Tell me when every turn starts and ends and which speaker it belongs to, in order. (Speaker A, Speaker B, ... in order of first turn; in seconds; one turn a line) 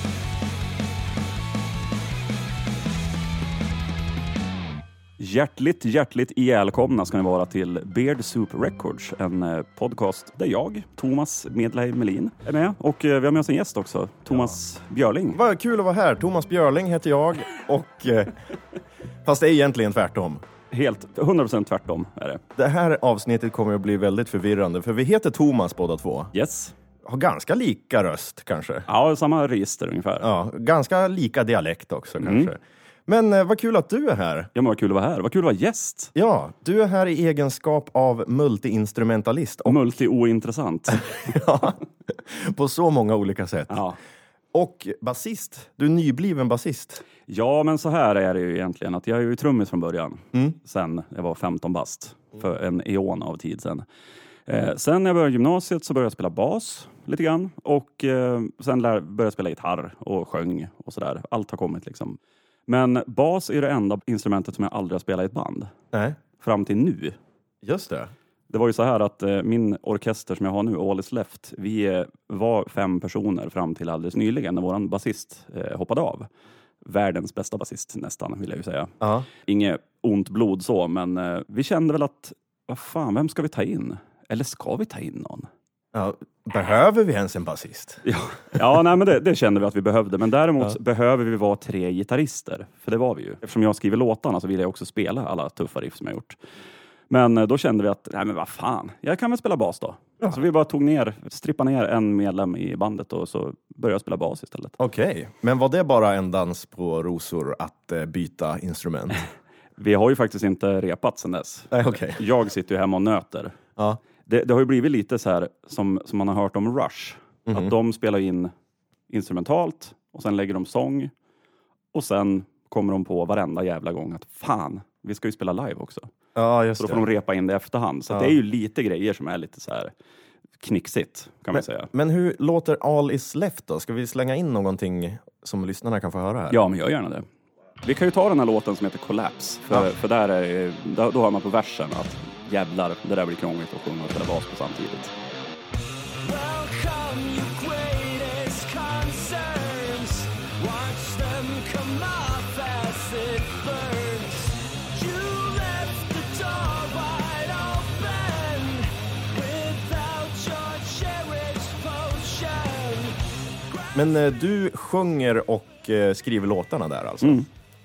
Speaker A: 5.2-15.4
Speaker B: 15.3-18.4
Speaker B: 19.2-20.4
Speaker A: 20.7-22.4
Speaker B: 22.6-26.3
Speaker A: 26.3-26.7
Speaker B: 27.1-28.9
Speaker A: 28.9-30.3
Speaker B: 30.2-34.5
Speaker A: 32.2-32.5
Speaker A: 34.5-36.1
Speaker B: 36.1-39.8
Speaker A: 39.6-41.4
Speaker B: 41.0-43.8
Speaker A: 43.7-44.0
Speaker B: 44.5-47.0
Speaker A: 47.3-53.8
Speaker A: 54.5-65.7
Speaker B: 65.9-66.2
Speaker A: 66.4-67.2
Speaker B: 67.6-68.1
Speaker A: 68.5-76.3
Speaker A: 76.8-85.5
Speaker B: 79.0-79.3
Speaker B: 85.9-88.0
Speaker A: 88.0-96.4
Speaker A: 97.1-104.8
Speaker B: 104.8-109.2
Speaker A: 109.8-113.6
Speaker B: 111.7-112.2
Speaker A: 114.2-118.5
Speaker B: 117.5-117.7
Speaker A: 119.1-121.1
Speaker A: 121.9-126.1
Speaker B: 126.3-127.0
Speaker A: 126.8-129.9
Speaker B: 128.1-128.3
Speaker A: 130.6-131.9
Speaker B: 131.5-136.6
Speaker A: 136.5-137.2
Speaker A: 137.8-145.1
Speaker C: 146.2-163.2
Speaker C: 163.7-164.0
Speaker B: 163.9-167.5
Speaker A: 167.2-167.5